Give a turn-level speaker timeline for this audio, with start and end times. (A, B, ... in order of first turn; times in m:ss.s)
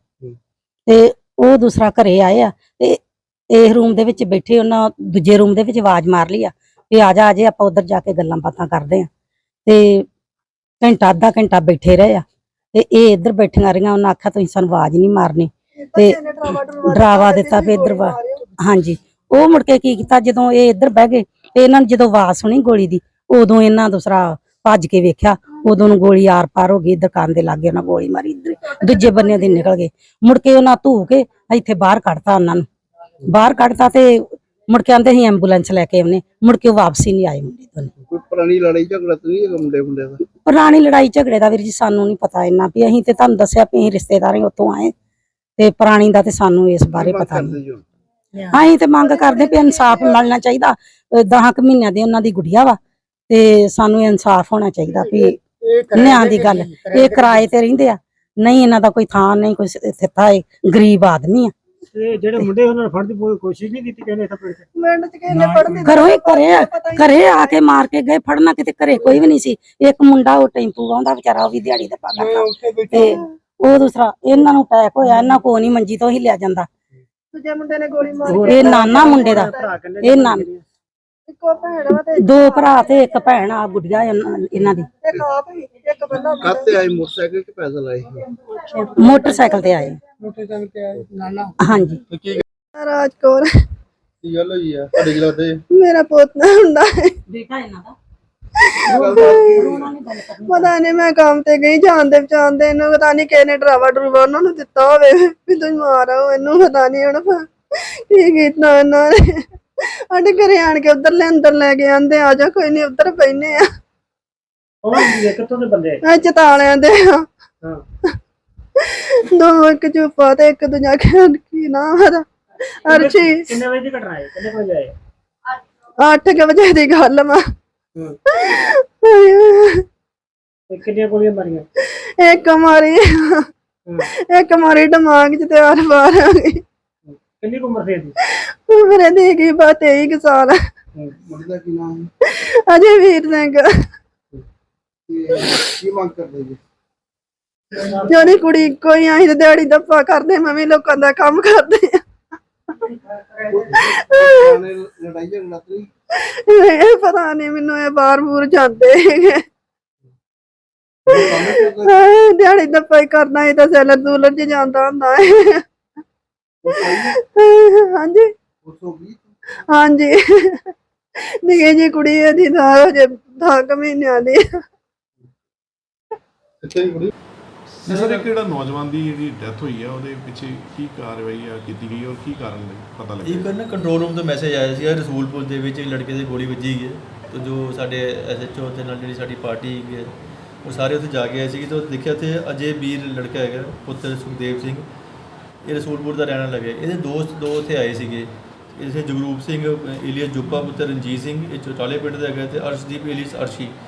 0:00.9-0:09.1 A
0:09.6-0:10.1 A
0:10.8-0:16.2 A
0:15.8-0:18.4 B
0:16.8-0:32.7 A
0:28.9-0:29.5 B
0:33.2-0:37.9 A
0:38.0-0:40.2 C
0:40.4-0:44.9 A
0:45.6-0:47.6 A
0:46.9-0:47.8 C
0:48.5-0:52.8 A
0:53.3-1:01.5 A
1:01.9-1:04.6 D
1:04.8-1:07.5 B
1:05.7-1:16.7 A
1:12.9-1:13.2 B
1:17.3-1:19.7 B
1:18.2-1:20.6 D
1:18.4-1:20.5 A
1:21.3-1:22.7 B
1:22.1-1:24.9 A
1:25.0-1:26.8 B
1:26.4-1:28.3 C
1:28.8-1:30.0 A
1:29.0-1:29.4 B
1:31.6-1:32.0 A
1:32.1-1:32.4 C
1:32.7-1:33.5 B
1:34.2-1:35.6 C
1:35.7-1:37.1 B
1:37.3-1:37.9 A
1:38.6-1:39.8 B
1:38.8-1:40.7 A
1:38.9-1:39.9 C
1:40.5-1:53.7 B
1:54.8-1:56.0 D
1:56.0-1:57.2 B
1:58.8-2:03.4 B
2:02.9-2:04.9 D
2:06.0-2:07.4 B
2:08.3-2:09.8 B
2:10.7-2:11.6 D
2:11.8-2:13.5 B
2:14.1-2:16.6 B
2:17.1-2:18.1 D
2:18.2-2:20.6 B
2:21.0-2:22.1 C
2:22.2-2:23.7 B
2:25.1-2:26.6 C
2:25.3-2:25.7 B
2:27.7-2:28.4 D
2:28.1-2:32.0 B
2:33.5-2:35.9 C
2:33.7-2:34.6 B
2:36.1-2:39.4 B
2:41.1-2:45.6 B
2:41.1-2:41.8 C
2:46.7-2:48.3 B
2:46.7-2:47.0 C
2:48.6-2:49.3 C
2:49.7-2:54.4 B
2:56.6-2:57.1 C
2:57.8-3:03.5 E
3:03.2-3:10.1 F
3:10.6-3:14.8 F
3:15.6-3:23.7 F